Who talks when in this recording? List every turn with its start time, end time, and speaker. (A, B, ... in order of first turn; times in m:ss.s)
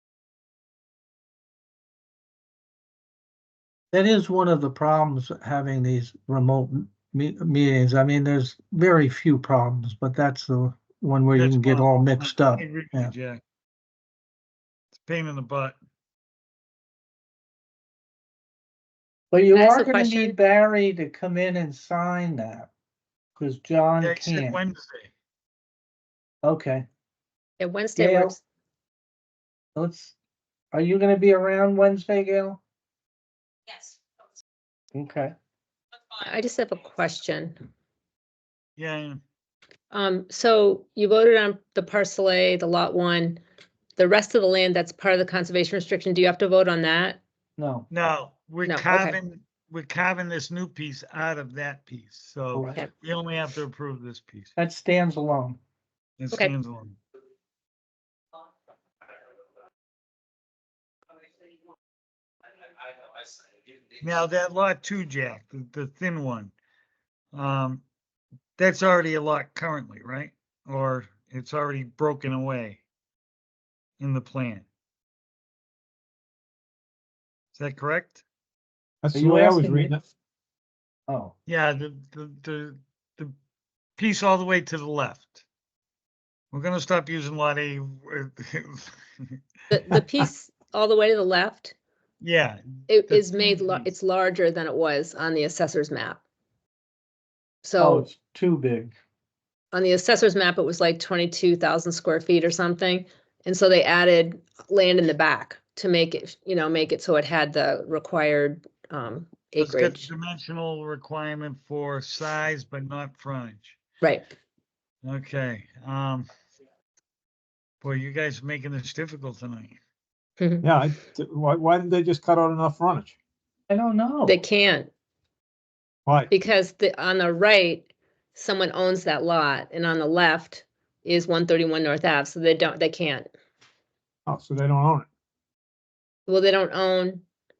0:03.9-0:13.1 A
0:11.3-0:13.4 B
0:15.0-0:15.8 B
0:19.3-0:22.7 A
0:19.5-0:20.4 C
0:23.4-0:24.6 A
0:24.0-0:25.1 B
0:26.4-0:26.8 A
0:27.6-0:28.4 C
0:28.0-0:28.4 A
0:29.7-0:30.1 A
0:30.7-0:32.6 A
0:34.9-0:35.3 A
0:36.2-0:37.6 C
0:38.8-0:39.2 B
0:39.9-0:43.4 C
0:44.0-0:47.2 C
0:47.6-0:47.9 A
0:47.9-0:54.5 B
0:48.6-0:49.2 C
0:52.5-0:52.8 A
0:54.6-0:55.6 A
0:56.2-0:57.0 B
1:04.0-1:06.5 B
1:07.3-1:07.8 B
1:08.6-1:12.8 B
1:14.0-1:14.6 B
1:17.6-1:18.2 B
1:19.0-1:20.0 D
1:19.1-1:19.9 A
1:21.1-1:21.3 A
1:21.5-1:23.3 B
1:24.0-1:25.4 B
1:26.5-1:28.9 B
1:29.7-1:31.7 C
1:32.2-1:33.9 B
1:32.9-1:36.2 C
1:37.6-1:38.1 C
1:37.8-1:38.9 A
1:39.7-1:50.1 C
1:49.6-1:53.8 B
1:54.0-1:54.3 C
1:55.0-1:56.3 B
1:57.8-1:59.8 B
2:00.4-2:00.6 C
2:00.6-2:03.1 D
2:03.7-2:04.4 A
2:04.2-2:04.9 C
2:06.3-2:13.3 C
2:14.2-2:15.1 D
2:16.3-2:17.2 C